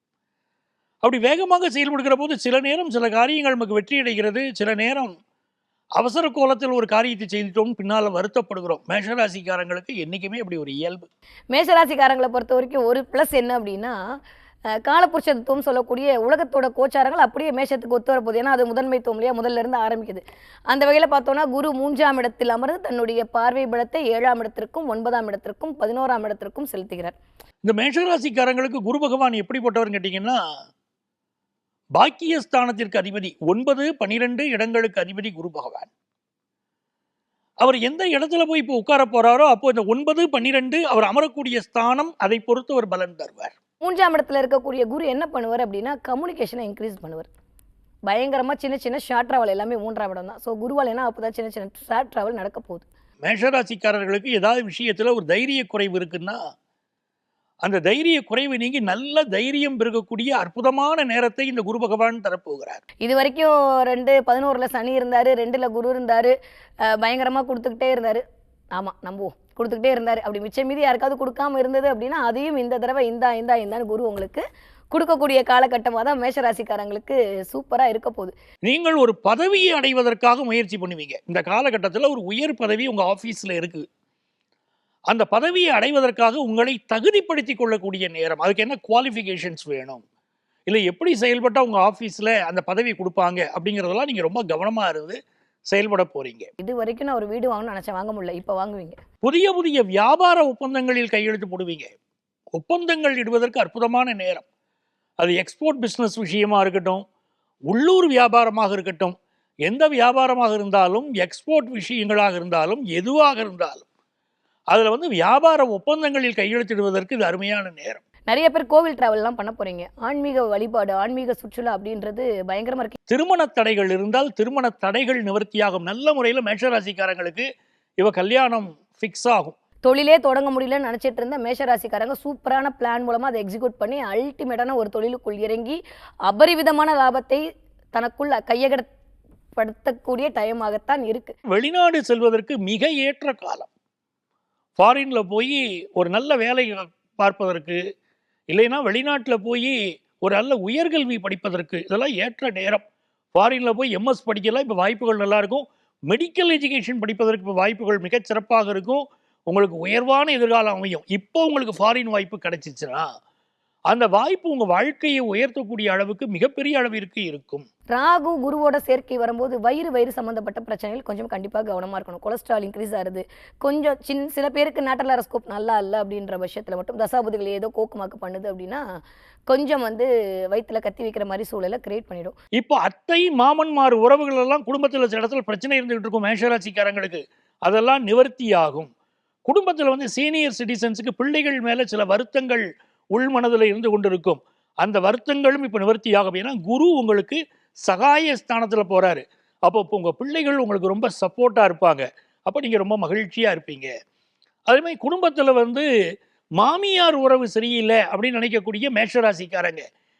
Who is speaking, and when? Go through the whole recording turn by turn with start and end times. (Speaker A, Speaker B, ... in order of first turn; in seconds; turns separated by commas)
Speaker A: 1.0-5.2, Speaker A: 6.0-11.1, Speaker B: 11.5-14.0, Speaker B: 14.8-27.1, Speaker A: 27.6-30.4, Speaker A: 31.9-35.9, Speaker A: 37.6-43.5, Speaker B: 43.8-47.3, Speaker B: 48.1-52.9, Speaker A: 53.2-56.4, Speaker A: 57.6-62.8, Speaker B: 63.0-66.3, Speaker B: 66.9-68.2, Speaker B: 68.7-78.3, Speaker A: 78.6-83.8, Speaker A: 85.1-90.0, Speaker A: 90.7-95.2, Speaker A: 95.7-96.5, Speaker B: 96.6-99.0, Speaker A: 99.2-101.9, Speaker A: 102.5-104.4, Speaker A: 105.2-107.0, Speaker A: 107.7-109.2, Speaker A: 109.7-113.8, Speaker A: 114.7-118.0, Speaker B: 118.3-123.0, Speaker A: 123.1-127.5, Speaker A: 128.0-129.6, Speaker B: 129.8-137.4, Speaker B: 137.9-138.9, Speaker B: 139.6-141.3, Speaker A: 141.5-143.7, Speaker A: 144.8-147.8, Speaker A: 148.5-152.8, Speaker A: 153.3-163.1, Speaker A: 163.9-167.7, Speaker B: 167.9-178.8, Speaker B: 179.5-182.4, Speaker A: 182.6-188.9, Speaker A: 189.5-203.9, Speaker A: 204.7-205.8, Speaker A: 206.6-209.8